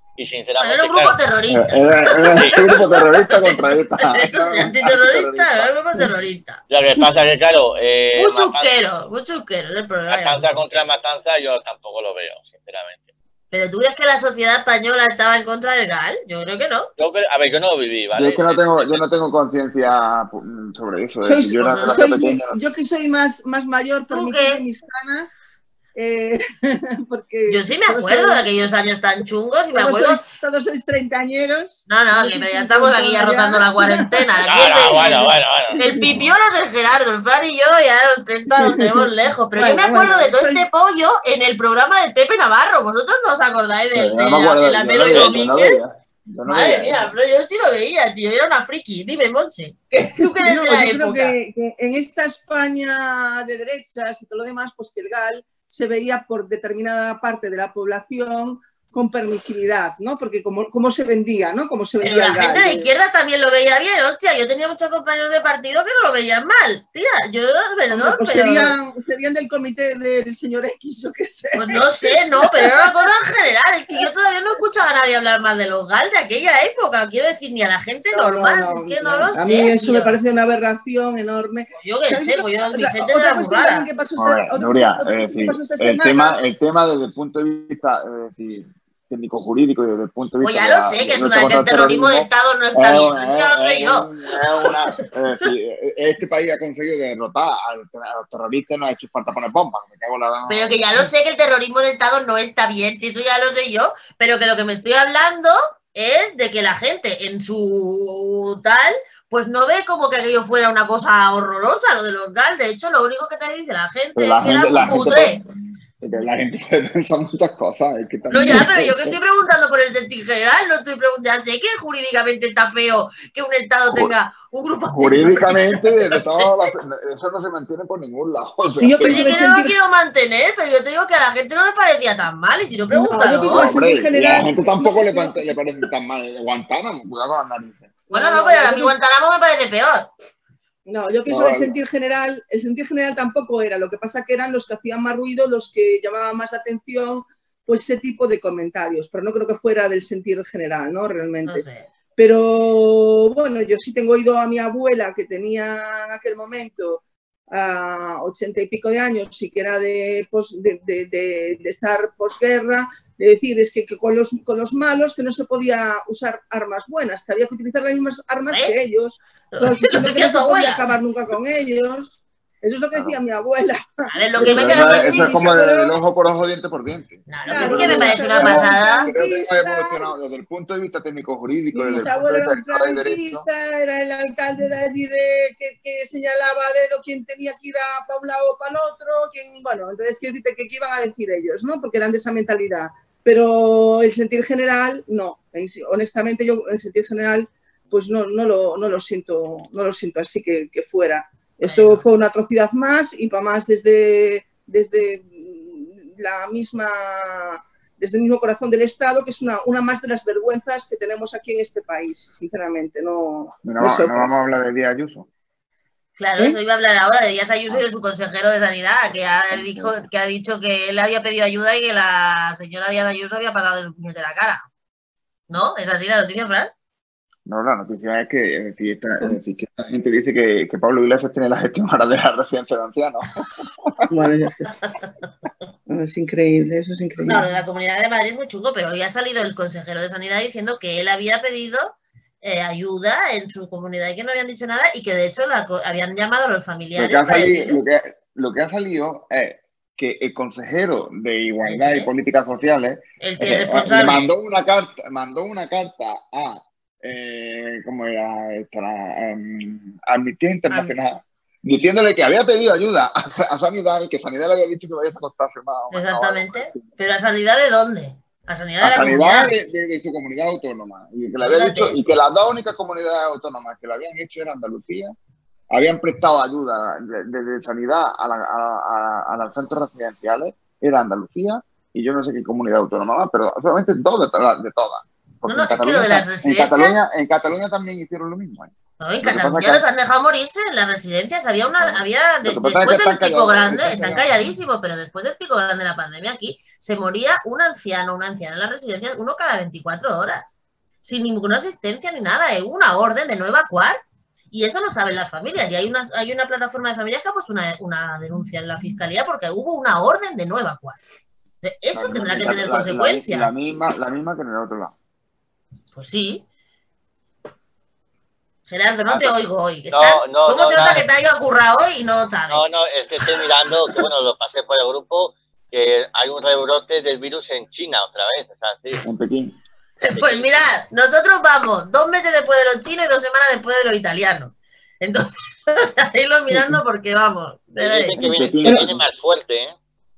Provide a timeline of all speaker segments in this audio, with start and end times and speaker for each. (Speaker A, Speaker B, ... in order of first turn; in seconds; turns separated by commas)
Speaker A: 0.2-1.2, Speaker B: 0.6-6.6, Speaker C: 1.5-6.1, Speaker A: 2.3-2.8, Speaker A: 6.7-8.7, Speaker B: 8.2-10.8, Speaker A: 10.1-13.1, Speaker B: 13.5-16.9, Speaker A: 17.0-19.0, Speaker C: 18.1-22.6, Speaker D: 21.2-25.4, Speaker B: 21.6-22.3, Speaker B: 24.1-24.6, Speaker D: 26.0-28.4, Speaker B: 27.5-30.2, Speaker D: 29.7-36.1, Speaker B: 31.9-45.8, Speaker A: 34.4-35.8, Speaker D: 38.6-40.7, Speaker C: 43.9-47.1, Speaker B: 46.5-51.3, Speaker D: 50.2-62.9, Speaker B: 62.0-68.7, Speaker D: 67.9-72.9, Speaker B: 71.5-80.2, Speaker D: 78.1-86.4, Speaker B: 81.8-83.9, Speaker C: 84.2-101.1, Speaker B: 90.4-94.1, Speaker B: 100.5-115.4, Speaker C: 114.2-115.5, Speaker C: 116.0-119.2, Speaker B: 118.3-126.5, Speaker C: 124.9-129.4, Speaker D: 128.8-129.7, Speaker B: 129.1-133.7, Speaker D: 132.9-135.4, Speaker C: 133.4-138.0, Speaker D: 138.1-138.9, Speaker B: 138.1-140.1, Speaker D: 140.9-176.0, Speaker C: 141.3-141.8, Speaker B: 151.5-151.9, Speaker B: 169.5-170.9, Speaker C: 172.9-173.2, Speaker B: 174.1-175.4, Speaker C: 174.4-183.5, Speaker B: 177.3-179.1, Speaker D: 177.4-180.1, Speaker D: 181.7-214.3, Speaker B: 201.6-202.0, Speaker C: 213.6-215.3, Speaker B: 216.2-224.7, Speaker C: 219.5-220.1, Speaker B: 225.5-226.7, Speaker C: 227.5-234.0, Speaker D: 234.1-234.7, Speaker D: 235.9-237.4, Speaker B: 237.3-247.8, Speaker C: 247.0-266.9, Speaker B: 251.7-252.1, Speaker B: 253.2-254.2, Speaker B: 265.9-269.5, Speaker C: 268.8-275.1, Speaker B: 271.4-272.0, Speaker C: 275.7-289.9, Speaker B: 285.5-287.0, Speaker B: 289.0-304.0, Speaker C: 291.8-294.3, Speaker B: 304.5-311.0, Speaker B: 311.6-313.5, Speaker C: 311.9-314.9, Speaker B: 315.9-316.4, Speaker B: 318.7-322.6, Speaker A: 319.1-319.4, Speaker A: 319.9-321.1, Speaker A: 322.5-329.1, Speaker C: 329.0-329.6, Speaker B: 330.0-338.2, Speaker A: 330.1-330.7, Speaker C: 336.5-336.8, Speaker A: 337.8-339.8, Speaker C: 338.2-339.0, Speaker D: 338.6-338.9